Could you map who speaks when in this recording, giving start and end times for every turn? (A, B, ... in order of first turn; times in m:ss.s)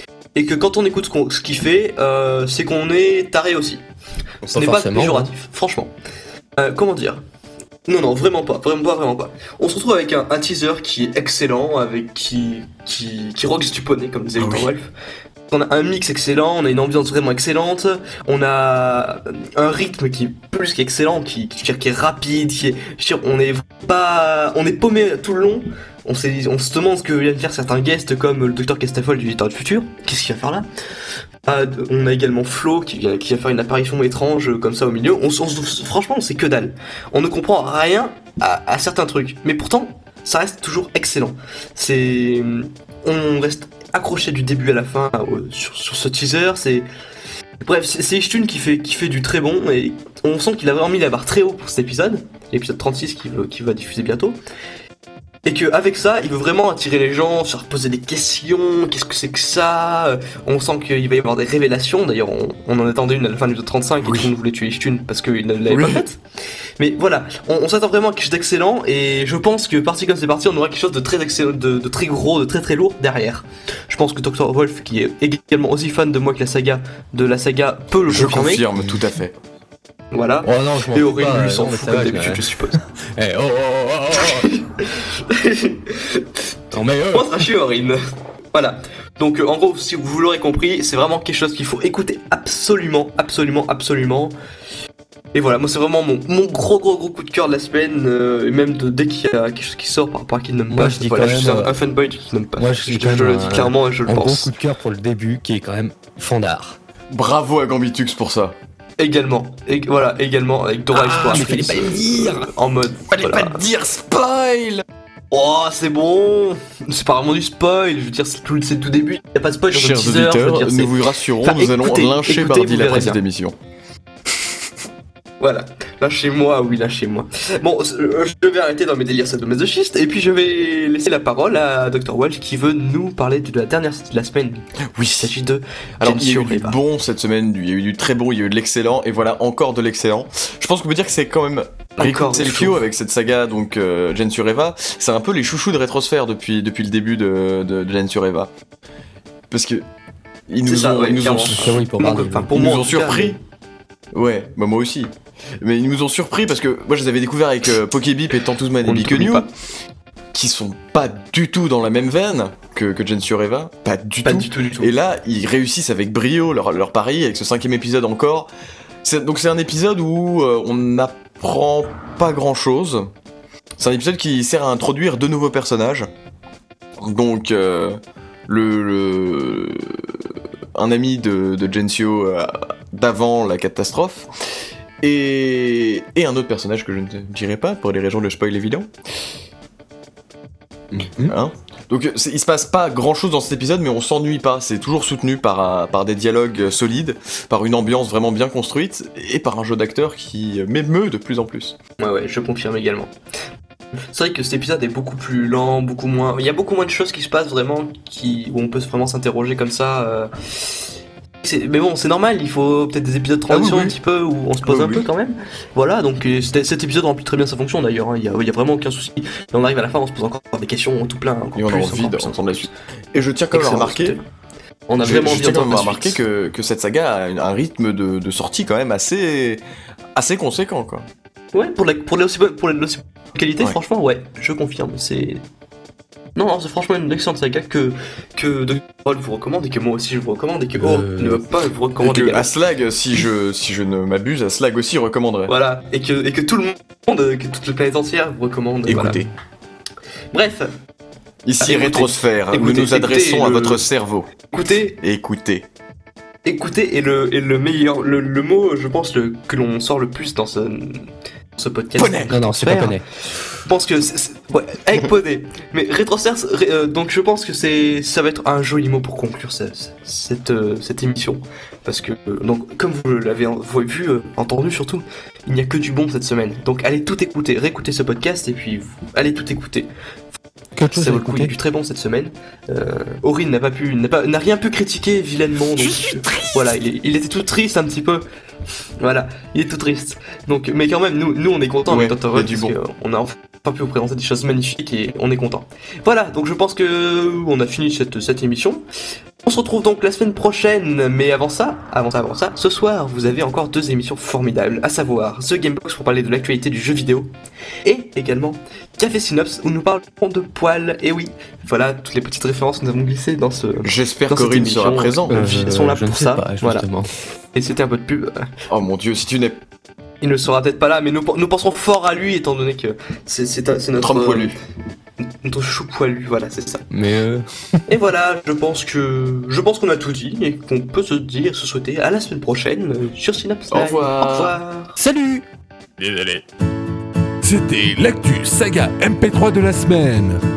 0:00.3-0:03.8 A
0:04.5-0:05.3 B
0:04.5-0:05.9 A
0:06.6-0:07.2 A
0:07.8-0:14.9 A
0:14.4-0:14.7 C
0:15.5-0:30.6 A
0:31.4-0:46.9 A
0:47.6-0:54.4 A
0:55.4-1:06.2 A
1:04.0-1:04.3 C
1:05.7-1:06.0 C
1:06.8-1:18.6 A
1:18.1-1:19.3 C
1:18.8-1:19.0 B
1:20.1-1:22.8 A
1:20.4-1:24.5 B
1:24.2-1:26.4 A
1:26.7-1:27.5 B
1:27.1-1:28.0 A
1:28.5-1:34.3 A
1:35.3-1:44.5 A
1:40.7-1:41.8 B
1:42.6-1:46.8 B
1:47.1-1:48.6 C
1:49.0-1:53.6 A
1:50.9-1:52.5 B
1:53.1-1:54.8 C
1:55.3-2:03.2 A
1:59.7-2:03.5 C
2:05.4-2:14.6 A
2:14.9-2:15.3 C
2:15.2-2:16.8 A
2:16.0-2:28.5 C
2:22.0-2:22.8 A
2:29.5-2:29.8 C
2:30.5-2:31.7 C
2:30.6-2:33.4 A
2:31.5-2:32.5 B
2:32.5-2:33.4 C
2:34.1-2:35.1 C
2:35.6-2:39.5 C
2:38.8-2:39.5 A
2:40.3-2:48.5 C
2:44.2-2:44.9 A
2:49.0-2:53.0 C
2:53.8-2:56.0 C
2:57.0-2:58.0 C
2:58.5-3:00.2 C
3:00.8-3:04.3 C
3:05.0-3:08.9 C
3:10.9-3:11.3 B
3:11.3-3:21.8 C
3:22.0-3:23.1 A
3:24.1-3:30.8 A
3:31.4-3:42.7 A
3:33.5-3:34.0 C
3:34.6-3:35.1 C
3:41.5-3:44.2 C
3:43.5-3:44.2 A
3:44.9-3:46.2 A
3:45.0-3:49.6 C
3:50.2-3:51.0 C
3:51.5-3:55.4 A
3:56.3-4:02.5 A
4:00.8-4:01.4 B
4:02.0-4:05.5 C
4:05.5-4:09.2 A
4:08.8-4:09.3 C
4:10.3-4:10.7 A
4:11.4-4:14.3 C
4:11.6-4:13.8 A
4:14.5-4:15.0 A
4:15.0-4:15.6 C
4:16.4-4:23.0 A
4:22.0-4:22.3 C
4:22.3-4:23.0 B
4:23.6-4:39.9 A
4:40.8-4:41.5 B
4:40.9-4:48.2 A
4:49.0-4:58.8 A
4:51.9-4:52.8 C
4:59.4-5:07.3 A
5:07.8-5:16.8 A
5:13.8-5:15.4 C
5:15.3-5:17.1 B
5:17.5-5:18.5 A
5:18.7-5:19.6 C
5:20.2-5:24.5 A
5:24.0-5:24.5 C
5:25.4-5:26.8 A
5:26.9-5:27.9 B
5:27.9-5:35.0 A
5:33.7-5:34.6 C
5:35.0-5:35.4 B
5:36.0-5:36.4 D
5:37.4-5:40.4 D